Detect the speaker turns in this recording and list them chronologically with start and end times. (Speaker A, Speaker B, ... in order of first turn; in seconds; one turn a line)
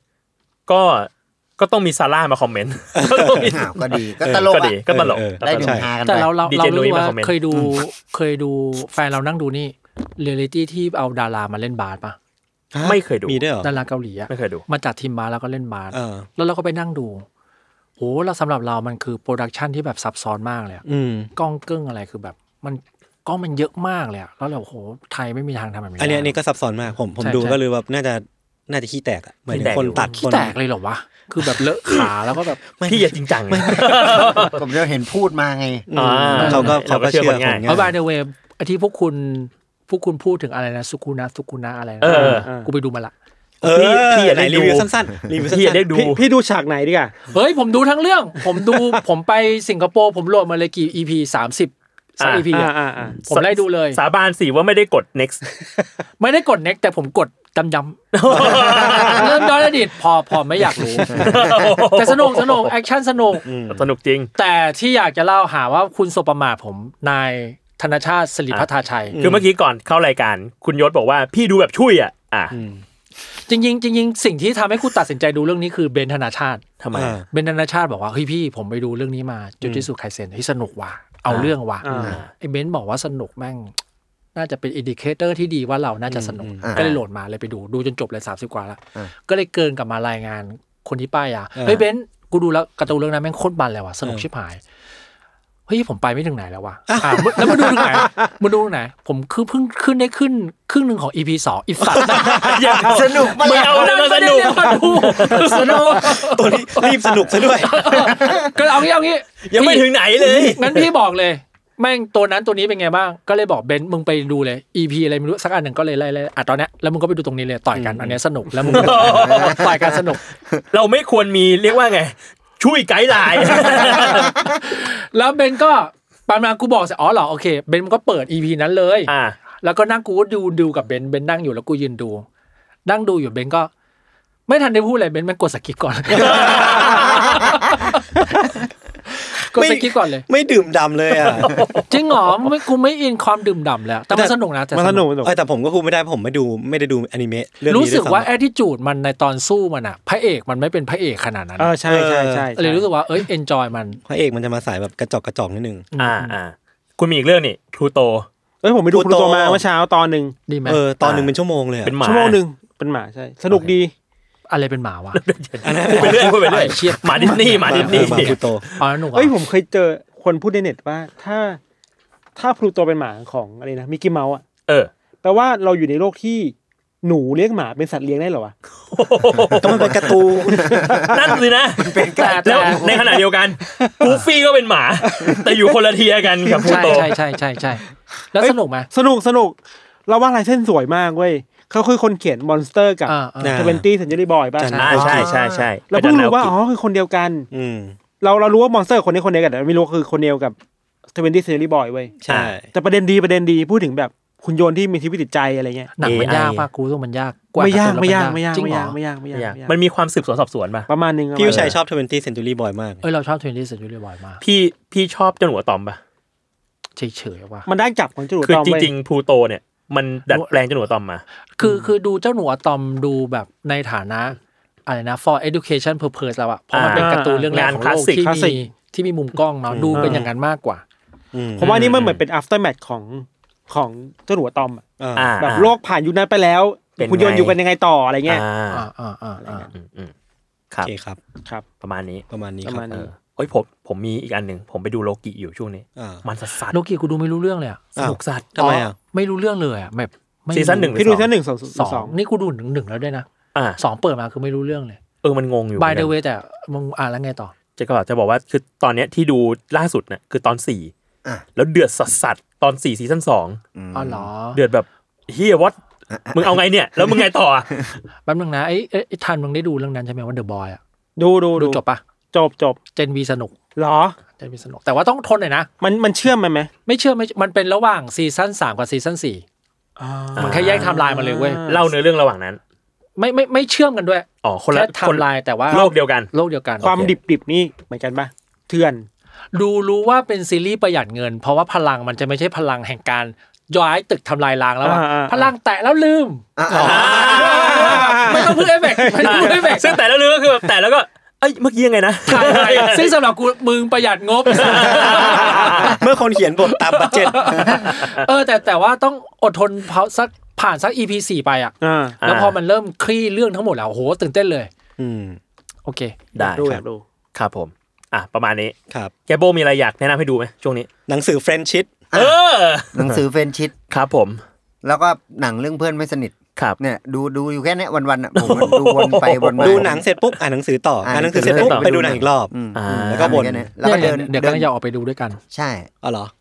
Speaker A: 0.7-5.8
Speaker B: 2.9-3.5
Speaker C: 3.5-4.8
Speaker B: 4.2-5.9
Speaker C: 5.4-6.3
Speaker D: 6.0-12.2
Speaker A: 6.4-7.4
Speaker B: 7.5-7.8
Speaker B: 12.7-13.7
Speaker A: 12.8-13.4
Speaker D: 13.6-17.2
Speaker A: 14.3-14.6
Speaker B: 15.9-16.3
Speaker D: 18.0-20.8
Speaker B: 20.9-21.3
Speaker D: 21.3-26.3
Speaker B: 26.0-30.5
Speaker D: 27.2-27.6
Speaker A: 29.5-30.1
Speaker D: 30.0-32.6
Speaker B: 32.7-34.5
Speaker A: 32.8-34.6
Speaker C: 34.0-35.9
Speaker B: 35.9-38.0
Speaker A: 35.9-37.7
Speaker D: 36.4-36.8
Speaker D: 37.6-43.1
Speaker A: 42.0-42.5
Speaker E: 42.0-42.7
Speaker B: 43.6-46.1
Speaker A: 43.6-46.2
Speaker E: 46.0-47.1
Speaker D: 47.3-54.0
Speaker A: 52.2-52.5
Speaker E: 52.5-53.2
Speaker A: 53.3-55.4
Speaker D: 56.2-63.5
Speaker A: 58.1-59.4
Speaker B: 58.3-59.1
Speaker A: 61.1-62.7
Speaker B: 63.4-63.8
Speaker A: 63.7-64.3
Speaker D: 64.3-69.2
Speaker B: 69.1-69.5
Speaker A: 69.2-72.5
Speaker B: 72.5-72.8
Speaker D: 73.5-76.6
Speaker A: 76.8-77.1
Speaker B: 76.9-77.2
Speaker D: 77.3-83.7
Speaker A: 81.3-82.2
Speaker E: 81.8-82.2
Speaker D: 84.3-94.6
Speaker B: 86.1-86.7
Speaker A: 86.8-87.0
Speaker B: 91.5-91.9
Speaker D: 95.7-120.2
Speaker B: 96.9-98.0
Speaker B: 101.9-102.7
Speaker A: 102.0-105.9
Speaker C: 102.8-103.9
Speaker B: 105.3-108.1
Speaker A: 109.5-110.9
Speaker A: 118.6-119.8
Speaker C: 119.2-119.7
Speaker A: 120.7-124.3
Speaker D: 123.7-132.2
Speaker A: 129.1-129.4
Speaker D: 132.8-133.7
Speaker D: 134.5-138.2
Speaker B: 136.2-137.4
Speaker A: 136.2-137.0
Speaker D: 139.2-140.2
Speaker B: 139.4-141.6
Speaker A: 141.2-141.8
Speaker D: 141.9-145.1
Speaker B: 144.1-144.3
Speaker E: 144.7-145.3
Speaker B: 145.2-148.3
Speaker D: 147.6-151.7
Speaker E: 151.6-152.8
Speaker B: 151.9-152.5
Speaker D: 152.6-154.0
Speaker B: 154.1-155.9
Speaker D: 155.9-156.4
Speaker A: 156.0-158.3
Speaker E: 158.6-160.3
Speaker B: 158.9-159.6
Speaker D: 160.5-160.8
Speaker B: 160.6-162.0
Speaker A: 161.0-161.3
Speaker A: 161.8-162.4
Speaker E: 162.0-163.9
Speaker D: 164.5-165.2
Speaker A: 165.1-168.4
Speaker B: 165.6-168.7
Speaker D: 165.9-169.3
Speaker E: 169.1-171.6
Speaker E: 172.3-174.4
Speaker E: 175.2-178.5
Speaker A: 178.9-180.1
Speaker B: 179.6-180.8
Speaker C: 180.5-183.1
Speaker A: 181.1-187.1
Speaker D: 182.2-183.0
Speaker D: 186.7-188.9
Speaker E: 188.9-195.2
Speaker D: 193.1-193.7
Speaker B: 193.4-193.8
Speaker B: 194.6-195.3
Speaker D: 194.7-195.0
Speaker A: 194.8-196.5
Speaker C: 195.1-195.7
Speaker E: 195.9-197.5
Speaker B: 197.5-198.0
Speaker E: 198.2-200.6
Speaker E: 201.1-202.1
Speaker B: 202.2-202.7
Speaker A: 202.3-202.5
Speaker E: 202.7-205.9
Speaker D: 206.0-209.0
Speaker A: 206.0-206.7
Speaker E: 207.6-209.7
Speaker A: 209.3-210.9
Speaker E: 210.9-211.8
Speaker B: 211.3-213.0
Speaker A: 211.4-211.7
Speaker D: 213.0-214.4
Speaker A: 214.4-216.0
Speaker D: 217.0-217.7
Speaker E: 217.7-218.9
Speaker A: 218.4-221.2
Speaker D: 221.6-230.8
Speaker A: 226.7-228.2
Speaker E: 226.9-227.6
Speaker E: 228.2-228.6
Speaker B: 229.7-230.3
Speaker E: 229.9-230.3
Speaker B: 231.3-231.9
Speaker A: 231.6-232.2
Speaker E: 231.6-234.8
Speaker B: 235.0-235.3
Speaker A: 235.2-235.8
Speaker E: 235.4-238.4
Speaker A: 237.0-237.6
Speaker A: 238.2-238.9
Speaker D: 238.7-239.7
Speaker A: 239.7-240.1
Speaker B: 240.8-241.2
Speaker A: 241.8-242.2
Speaker B: 242.3-242.9
Speaker E: 242.6-243.1
Speaker A: 242.9-246.8
Speaker B: 246.0-246.2
Speaker D: 246.7-247.9
Speaker A: 248.0-248.6
Speaker B: 248.0-248.9
Speaker D: 248.6-251.0
Speaker A: 250.5-251.3
Speaker E: 250.9-252.2
Speaker D: 251.7-253.3
Speaker D: 253.8-255.0
Speaker A: 255.2-256.1
Speaker D: 255.8-257.5
Speaker A: 257.8-260.9
Speaker A: 261.6-263.6
Speaker C: 263.7-264.3
Speaker D: 263.9-264.6
Speaker A: 264.5-265.8
Speaker C: 266.1-267.2
Speaker A: 266.3-267.9
Speaker D: 268.2-270.8
Speaker E: 271.2-271.8
Speaker D: 271.5-272.0
Speaker E: 272.3-272.8
Speaker D: 272.9-273.5
Speaker E: 273.8-274.2
Speaker D: 274.4-275.7
Speaker E: 275.8-276.7
Speaker D: 276.9-279.4
Speaker E: 280.0-281.9
Speaker A: 280.4-280.9
Speaker D: 280.4-281.6
Speaker A: 281.6-282.6
Speaker D: 283.2-287.1
Speaker A: 284.4-286.3
Speaker E: 286.8-289.1
Speaker D: 289.5-296.4
Speaker E: 294.8-295.5
Speaker C: 296.6-297.6
Speaker B: 296.7-297.5
Speaker A: 296.8-298.1
Speaker D: 297.2-300.0
Speaker E: 297.6-299.8
Speaker A: 299.2-303.1
Speaker D: 302.2-305.9
Speaker A: 304.5-305.9
Speaker B: 304.8-307.8
Speaker D: 306.7-314.7
Speaker E: 311.8-312.2
Speaker A: 312.2-312.6
Speaker B: 315.0-315.4
Speaker D: 315.9-316.2
Speaker A: 316.3-316.8
Speaker E: 316.4-317.0
Speaker A: 317.3-318.8
Speaker A: 319.3-320.9
Speaker B: 321.1-322.0
Speaker C: 322.1-322.4
Speaker A: 322.1-323.2
Speaker C: 322.9-323.7
Speaker A: 323.9-324.4
Speaker C: 324.8-330.0
Speaker A: 328.3-330.0
Speaker B: 329.6-333.7
Speaker C: 331.0-334.7
Speaker A: 331.4-331.9
Speaker A: 332.7-333.5
Speaker D: 333.8-335.4
Speaker C: 335.5-335.9
Speaker B: 336.0-336.3